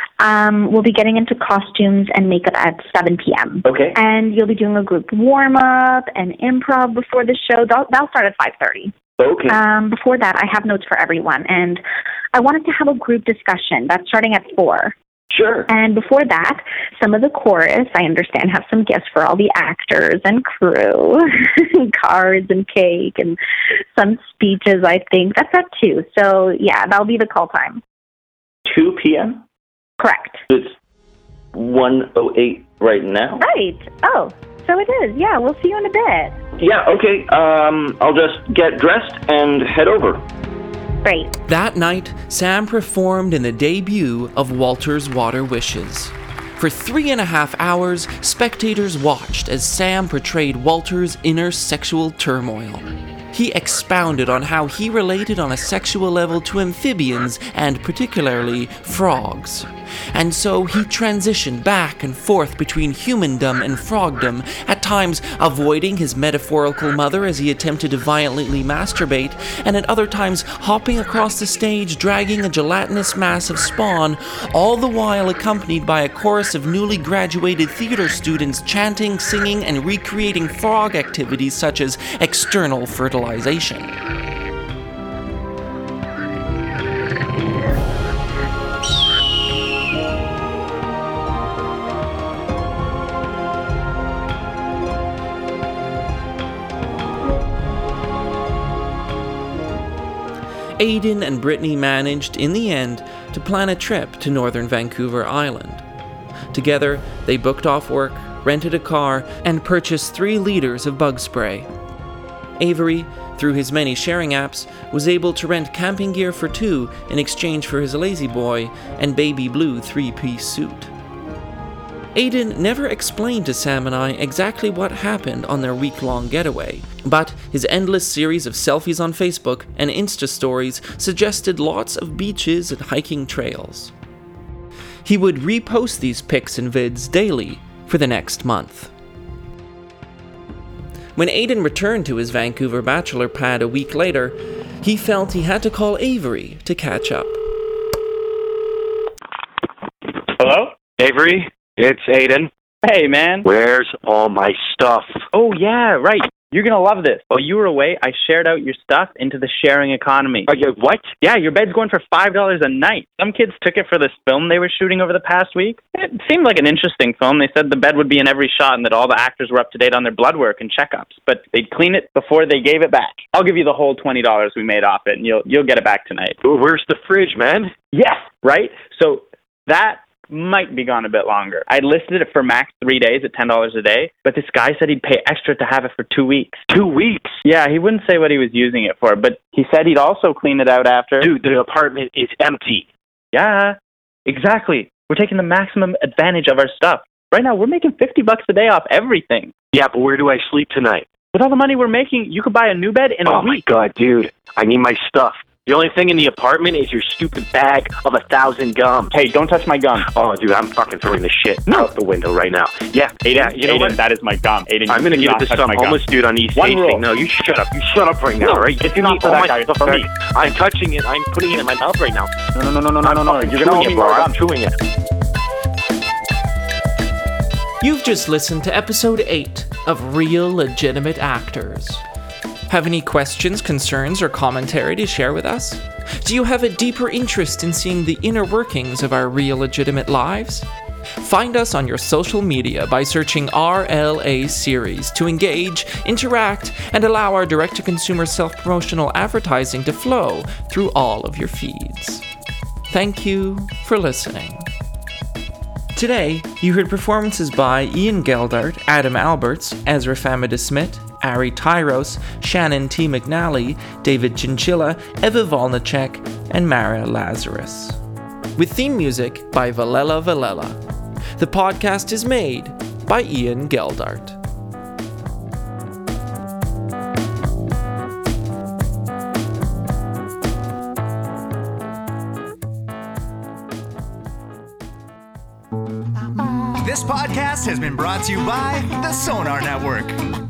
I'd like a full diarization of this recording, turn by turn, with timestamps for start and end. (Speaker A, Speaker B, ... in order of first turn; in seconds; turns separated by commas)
Speaker A: 0.2-8.9, Speaker B: 3.6-4.0, Speaker B: 9.2-9.6, Speaker A: 9.5-11.8, Speaker A: 12.3-14.9, Speaker B: 15.3-15.7, Speaker A: 15.7-23.4, Speaker A: 23.9-27.8, Speaker B: 28.6-29.4, Speaker A: 30.0-30.4, Speaker B: 30.5-30.8, Speaker B: 31.5-33.4, Speaker A: 33.4-36.4, Speaker B: 36.6-40.2, Speaker A: 41.0-41.3, Speaker C: 41.5-83.9, Speaker C: 100.8-105.8, Speaker C: 106.5-111.7, Speaker C: 112.6-120.9, Speaker C: 122.2-133.9, Speaker C: 135.1-138.9, Speaker C: 141.2-147.4, Speaker D: 150.4-150.8, Speaker E: 151.0-152.5, Speaker D: 152.8-153.5, Speaker E: 153.4-155.2, Speaker D: 155.3-160.5, Speaker E: 160.5-161.1, Speaker D: 161.2-176.4, Speaker E: 176.4-177.7, Speaker D: 177.9-186.6, Speaker E: 186.7-187.4, Speaker D: 187.4-191.3, Speaker E: 191.2-192.9, Speaker D: 193.3-199.5, Speaker E: 199.7-201.1, Speaker D: 201.3-203.7, Speaker E: 203.3-209.2, Speaker D: 209.1-210.1, Speaker E: 210.1-214.0, Speaker D: 213.2-216.0, Speaker E: 214.9-222.3, Speaker D: 216.6-217.0, Speaker D: 218.4-220.1, Speaker D: 222.6-224.4, Speaker E: 223.0-224.7, Speaker C: 227.8-232.0, Speaker C: 232.7-240.7, Speaker C: 241.2-252.2, Speaker C: 252.9-254.7, Speaker C: 255.9-268.0, Speaker C: 268.6-270.8, Speaker C: 271.4-274.4, Speaker F: 286.4-290.2